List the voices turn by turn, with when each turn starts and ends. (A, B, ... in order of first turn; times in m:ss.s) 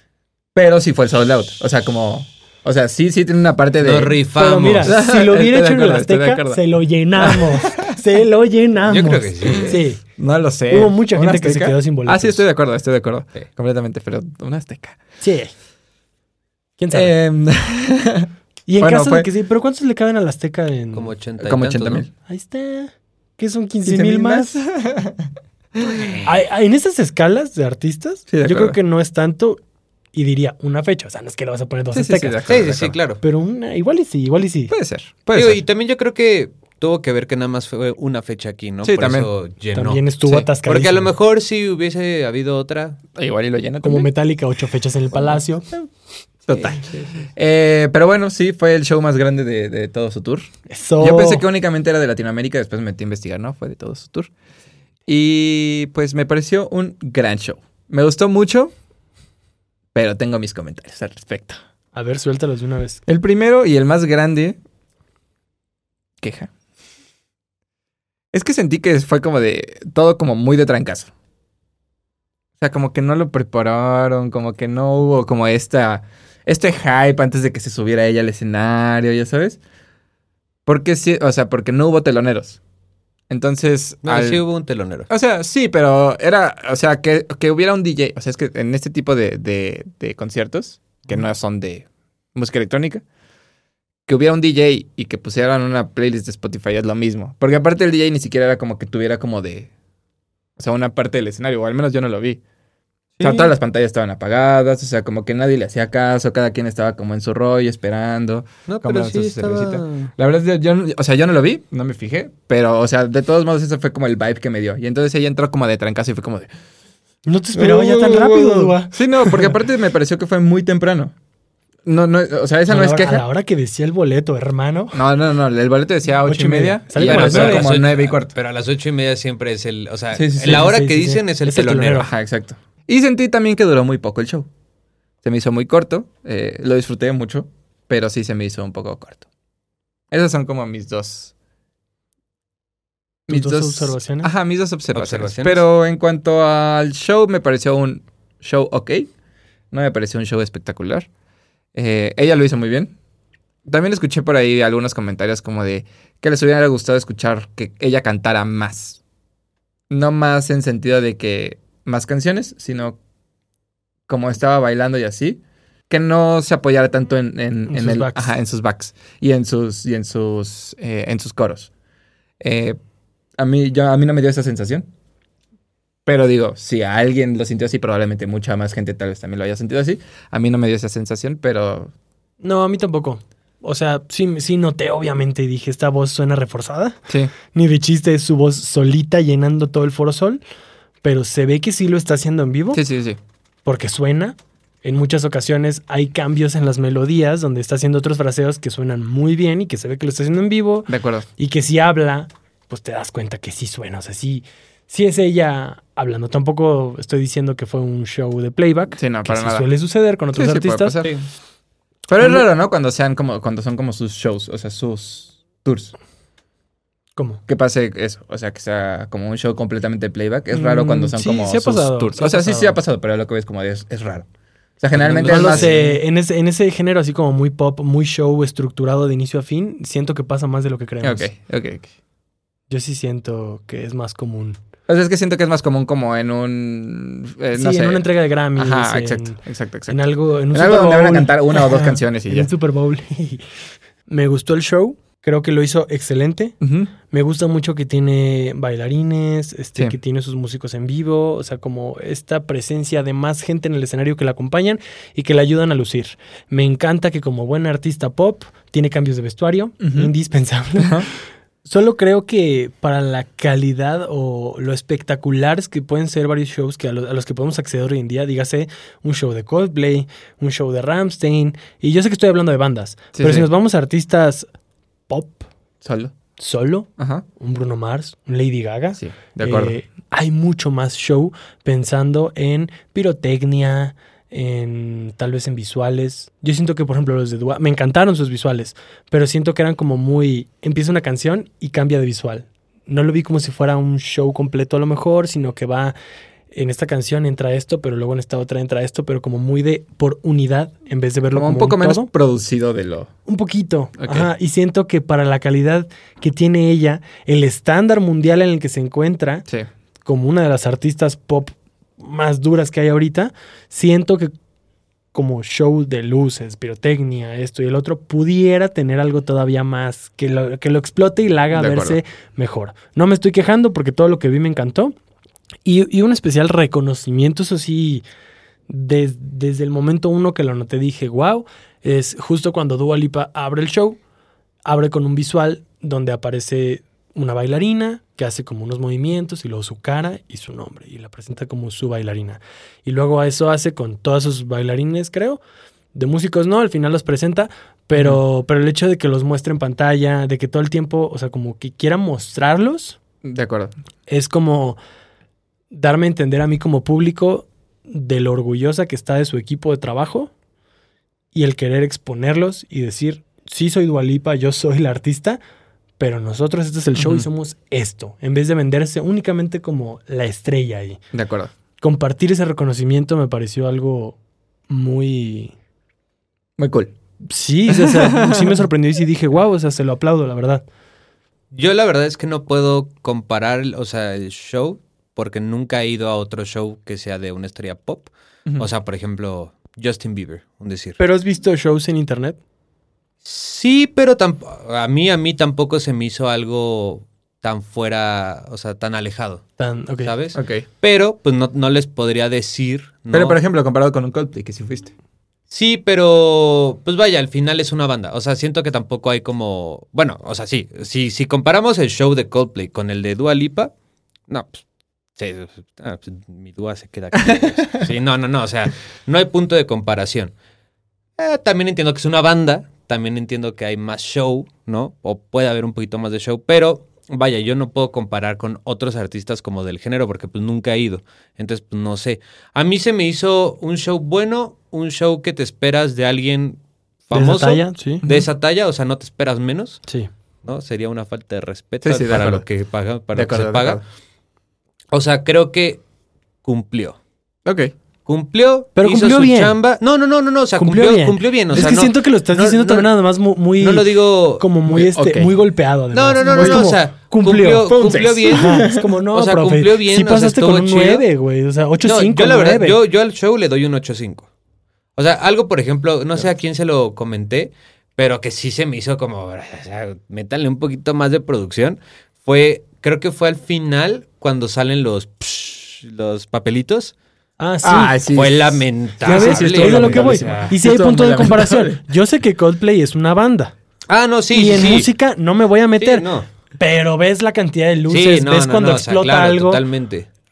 0:00.5-0:04.2 A
0:03.8-0:05.0 B
0:04.4-0:10.0 C
0:04.8-0:06.6 A
0:07.2-0:08.0 A
0:08.8-0:09.8 B
0:09.6-0:15.0 A
0:10.7-0:12.4 C
0:15.2-0:15.5 C
0:16.8-0:17.1 C
0:16.9-0:19.3 A
0:18.7-0:21.1 C
0:20.9-0:22.1 B
0:21.4-0:22.1 A
0:22.2-0:24.6 C
0:23.8-0:26.0 A
0:25.8-0:26.3 B
0:26.2-0:29.6 C
0:28.3-0:28.8 A
0:30.1-0:32.4 C
0:31.9-0:33.0 A
0:32.4-0:33.2 B
0:33.2-0:34.7 C
0:34.7-0:35.6 A
0:35.3-0:43.0 B
0:38.8-0:39.3 A
0:39.7-0:41.1 C
0:43.1-0:44.1 A
0:43.8-0:45.7 C
0:46.5-0:54.3 A
0:50.7-0:51.4 C
0:55.1-0:58.7 A
0:59.9-1:01.6 A
1:01.9-1:03.0 C
1:03.1-1:04.6 A
1:06.2-1:06.5 A
1:08.3-1:11.1 A
1:12.6-1:19.6 A
1:20.6-1:22.6 A
1:23.3-1:24.4 A
1:24.0-1:25.1 B
1:25.1-1:33.0 A
1:34.1-1:39.7 A
1:40.6-1:42.4 A
1:43.2-1:43.5 B
1:43.2-1:56.5 A
1:48.7-1:50.1 B
1:57.2-1:59.5 C
1:57.5-2:01.1 A
2:01.8-2:03.2 A
2:02.7-2:05.0 C
2:04.9-2:08.3 A
2:06.2-2:07.7 C
2:07.0-2:12.1 B
2:10.1-2:10.7 A
2:10.4-2:12.1 C
2:12.0-2:14.5 A
2:15.2-2:19.2 A
2:20.1-2:21.3 A
2:23.3-2:24.3 C
2:23.3-2:29.1 A
2:24.9-2:25.6 B
2:29.7-2:31.1 A
2:31.7-2:32.9 A
2:33.6-2:39.0 A
2:39.9-2:43.0 A
2:44.1-2:51.7 A
2:47.7-2:48.4 C
2:52.4-2:52.8 A
2:53.4-2:54.9 A
2:56.0-3:01.9 A
3:02.4-3:07.0 C
3:07.5-3:10.4 C
3:11.0-3:12.8 C
3:12.7-3:13.2 A
3:13.6-3:31.0 C
3:20.9-3:21.3 A
3:29.0-3:29.7 A
3:30.3-3:31.1 A
3:31.0-3:31.3 B
3:32.1-3:35.9 A
3:32.2-3:32.4 C
3:37.2-3:37.4 C
3:37.5-3:44.3 A
3:40.5-3:42.8 C
3:44.8-3:45.8 A
3:44.9-3:46.0 B
3:45.2-3:51.3 C
3:51.0-3:51.9 A
3:52.7-3:54.6 C
3:54.9-4:00.0 A
3:57.5-4:03.4 C
4:00.5-4:02.5 A
4:04.1-4:06.5 C
4:06.6-4:06.9 A
4:07.1-4:21.1 C
4:19.8-4:20.1 A
4:20.8-4:21.1 A
4:21.6-4:34.4 C
4:33.1-4:33.5 A
4:35.1-4:35.5 C
4:35.8-4:36.1 A
4:36.4-4:36.9 C
4:37.0-4:37.2 A
4:37.4-4:55.9 C
4:39.0-4:39.8 A
4:56.5-5:02.1 C
5:01.3-5:03.1 A
5:03.3-5:09.4 C
5:04.0-5:04.3 A
5:10.0-5:14.3 C
5:15.1-5:24.9 C
5:21.5-5:22.0 A
5:25.6-5:28.0 C
5:28.7-5:34.0 C
5:34.6-5:45.4 C
5:45.9-5:53.0 C
5:53.2-5:53.7 A
5:54.1-5:54.8 C
5:55.7-6:00.3 C
6:01.3-6:05.4 C
6:06.0-6:11.0 C
6:07.0-6:07.2 A
6:11.1-6:11.5 A
6:11.8-6:14.2 C
6:14.7-6:15.5 C
6:16.6-6:16.9 A
6:17.3-6:20.6 C
6:17.7-6:18.6 A
6:21.5-6:31.0 B
6:31.0-6:32.4 C
6:33.2-6:39.4 B
6:39.6-6:40.1 C
6:40.0-6:43.4 B
6:40.3-6:40.6 A
6:43.1-6:44.9 A
6:45.5-6:53.7 B
6:54.3-6:54.6 B
6:55.2-7:00.3 B
7:01.2-7:19.8 B
7:17.1-7:18.0 C
7:18.0-7:18.3 A
7:20.4-7:23.8 B
7:21.8-7:22.4 A
7:23.1-7:23.8 A
7:24.9-7:25.8 B
7:26.4-7:27.0 B
7:27.4-7:27.7 A
7:28.0-7:32.9 B
7:28.8-7:29.6 C
7:30.6-7:37.7 C
7:33.6-7:34.4 B
7:34.7-7:35.3 A
7:35.9-7:41.0 B
7:36.2-7:36.7 A
7:37.7-7:38.9 A
7:38.3-7:42.8 C
7:41.8-7:44.3 B
7:45.0-7:56.9 B
7:57.4-7:58.0 C
7:57.6-8:01.8 A
7:58.1-8:00.6 B
7:59.0-8:03.5 C
8:03.9-8:04.9 B
8:04.3-8:09.6 C
8:05.8-8:06.3 B
8:07.9-8:10.1 B